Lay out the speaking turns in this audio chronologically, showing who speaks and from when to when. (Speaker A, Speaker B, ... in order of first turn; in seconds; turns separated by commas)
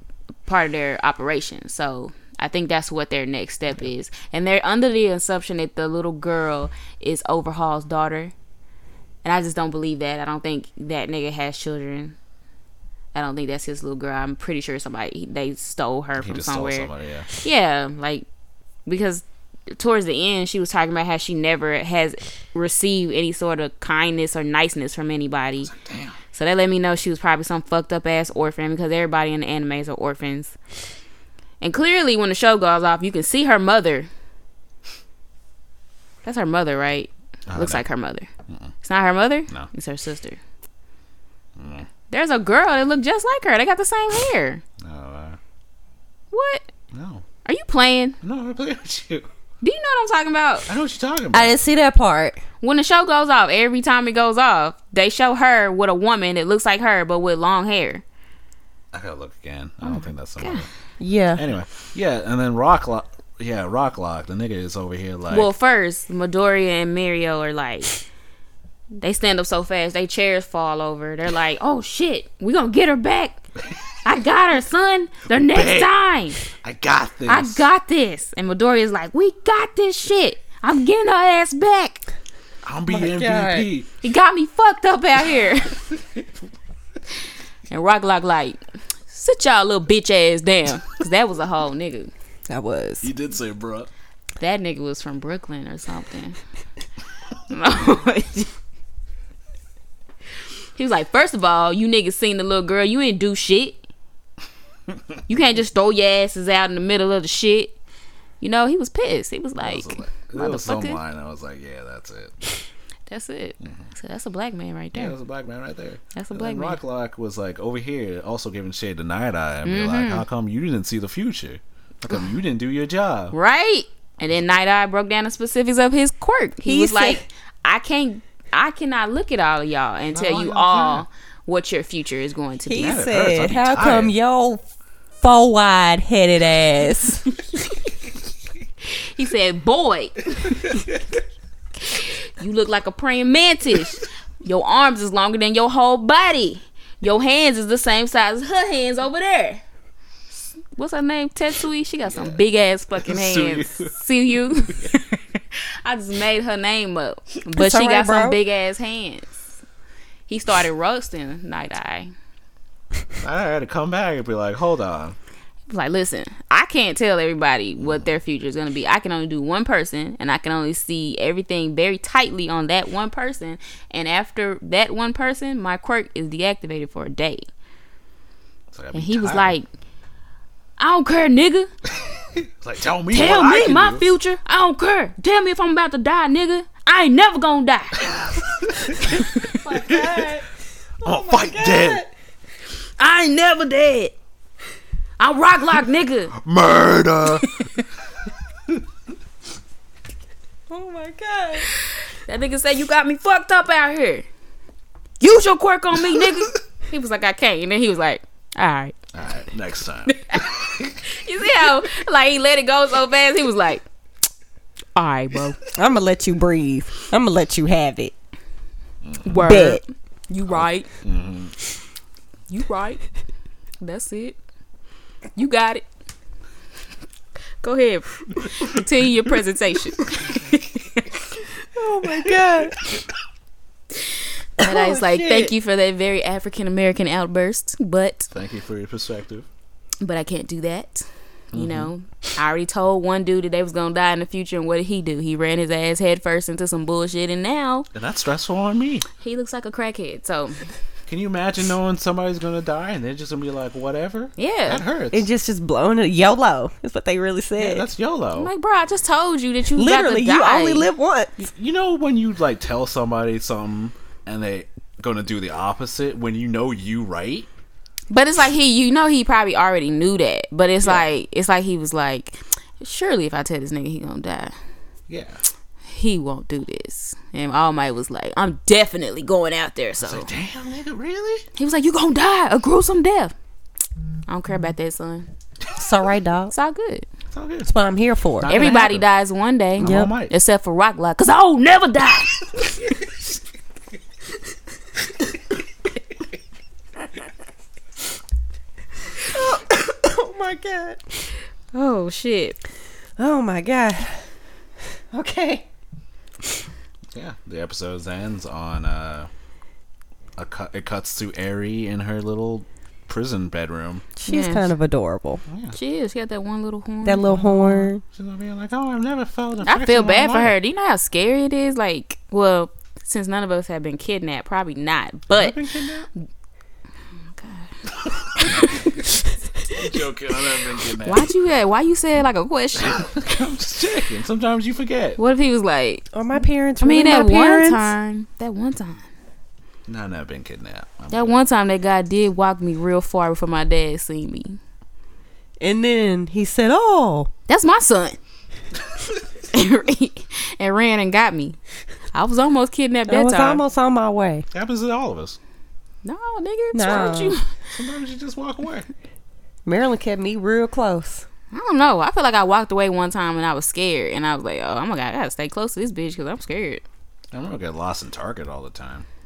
Speaker A: 0.4-8.3, Speaker A: 9.2-12.1, Speaker A: 13.1-18.2, Speaker B: 16.2-17.3, Speaker A: 18.9-25.7, Speaker B: 25.6-26.2, Speaker A: 26.3-30.5, Speaker A: 31.6-34.1, Speaker A: 36.2-38.3, Speaker B: 37.5-37.8, Speaker A: 38.8-40.4, Speaker B: 41.6-41.9, Speaker A: 42.1-44.6, Speaker B: 44.8-45.4, Speaker A: 46.3-46.7, Speaker B: 46.9-47.2, Speaker A: 47.4-48.2, Speaker B: 48.2-49.3, Speaker A: 49.6-50.7, Speaker B: 50.7-51.5, Speaker C: 51.3-52.4, Speaker A: 52.6-58.0, Speaker B: 58.9-60.6, Speaker A: 59.8-60.6, Speaker C: 61.0-61.4, Speaker B: 61.4-65.5, Speaker A: 65.3-68.0, Speaker A: 69.0-73.4, Speaker A: 74.0-76.4, Speaker B: 75.3-77.7, Speaker A: 77.3-82.0, Speaker B: 82.6-83.9, Speaker C: 82.9-83.7, Speaker A: 84.0-85.8, Speaker A: 87.7-92.1, Speaker C: 92.5-93.1, Speaker B: 93.0-93.9, Speaker A: 94.4-96.4, Speaker A: 97.5-98.5, Speaker A: 100.8-103.8, Speaker A: 105.3-107.8, Speaker A: 108.4-111.0, Speaker B: 109.6-112.4, Speaker A: 113.1-115.1, Speaker B: 113.6-113.9, Speaker B: 114.9-123.3, Speaker A: 116.1-116.8, Speaker A: 119.6-120.2, Speaker A: 123.3-133.0, Speaker C: 126.7-127.2, Speaker B: 130.1-131.0, Speaker C: 132.7-134.6, Speaker B: 132.8-134.1, Speaker C: 135.2-137.2, Speaker A: 138.9-140.8, Speaker A: 141.8-149.6, Speaker A: 150.8-159.3, Speaker B: 152.1-152.4, Speaker B: 153.0-153.9, Speaker C: 157.5-158.4, Speaker A: 160.3-162.1, Speaker B: 163.2-165.2, Speaker A: 165.7-177.5, Speaker B: 167.8-168.1, Speaker B: 178.7-179.5, Speaker A: 178.9-179.7, Speaker A: 180.8-181.7, Speaker B: 182.2-184.1, Speaker A: 183.1-188.1, Speaker B: 188.0-189.2, Speaker A: 189.0-189.6, Speaker C: 189.6-190.5, Speaker B: 189.8-190.3, Speaker C: 191.0-192.1, Speaker B: 191.0-192.0, Speaker A: 193.0-194.1, Speaker A: 195.2-196.3, Speaker B: 196.3-197.7, Speaker A: 197.4-197.8, Speaker C: 200.7-201.7, Speaker A: 201.8-204.2, Speaker A: 205.2-208.9, Speaker B: 209.1-211.0, Speaker A: 210.1-213.8, Speaker A: 214.9-215.6, Speaker C: 215.7-218.1, Speaker B: 219.0-219.6, Speaker A: 219.2-220.9, Speaker C: 219.4-219.8, Speaker B: 220.5-221.5, Speaker A: 222.5-223.0, Speaker A: 223.8-224.4, Speaker A: 225.3-225.8, Speaker A: 227.6-231.2, Speaker C: 231.7-232.8, Speaker A: 233.9-238.3, Speaker C: 234.6-235.5, Speaker B: 238.3-239.5, Speaker A: 240.0-247.9, Speaker B: 241.5-241.9, Speaker B: 247.9-249.1, Speaker A: 249.2-250.7, Speaker B: 251.1-255.2, Speaker A: 254.4-254.8, Speaker C: 255.1-257.9, Speaker B: 257.6-258.5, Speaker A: 258.4-260.9, Speaker C: 259.8-261.5, Speaker B: 261.4-267.5, Speaker A: 268.1-274.5, Speaker B: 275.1-275.4, Speaker A: 275.9-280.3, Speaker B: 280.0-281.5, Speaker A: 281.6-283.3, Speaker A: 284.3-285.3, Speaker C: 285.8-286.5, Speaker A: 286.5-287.1, Speaker B: 287.3-287.7, Speaker C: 287.6-288.7, Speaker B: 288.4-289.1, Speaker A: 288.5-292.7, Speaker B: 289.8-290.3, Speaker C: 289.8-290.1, Speaker C: 299.2-301.3, Speaker A: 301.7-302.6, Speaker C: 303.2-304.2, Speaker C: 305.1-305.6, Speaker B: 307.1-309.3, Speaker B: 310.4-314.1, Speaker C: 314.2-315.4, Speaker A: 314.2-314.7, Speaker B: 315.5-315.8, Speaker A: 315.7-317.9, Speaker C: 317.0-318.0, Speaker B: 318.0-320.5, Speaker A: 319.6-325.6, Speaker B: 325.3-326.1, Speaker A: 327.4-327.7, Speaker B: 328.0-328.8, Speaker A: 328.4-329.0, Speaker B: 329.6-331.3, Speaker A: 331.0-333.1, Speaker B: 332.8-335.2, Speaker A: 335.2-336.1, Speaker C: 336.1-337.9, Speaker A: 336.8-339.0, Speaker B: 339.9-341.4, Speaker A: 341.1-344.6, Speaker C: 345.6-347.3, Speaker A: 347.5-348.2, Speaker A: 349.5-351.6, Speaker A: 352.1-353.6, Speaker C: 353.1-354.4, Speaker B: 354.5-355.4, Speaker A: 356.0-357.5, Speaker C: 356.7-357.4, Speaker B: 357.7-358.9, Speaker C: 359.6-361.2, Speaker A: 361.5-366.8, Speaker B: 367.3-369.1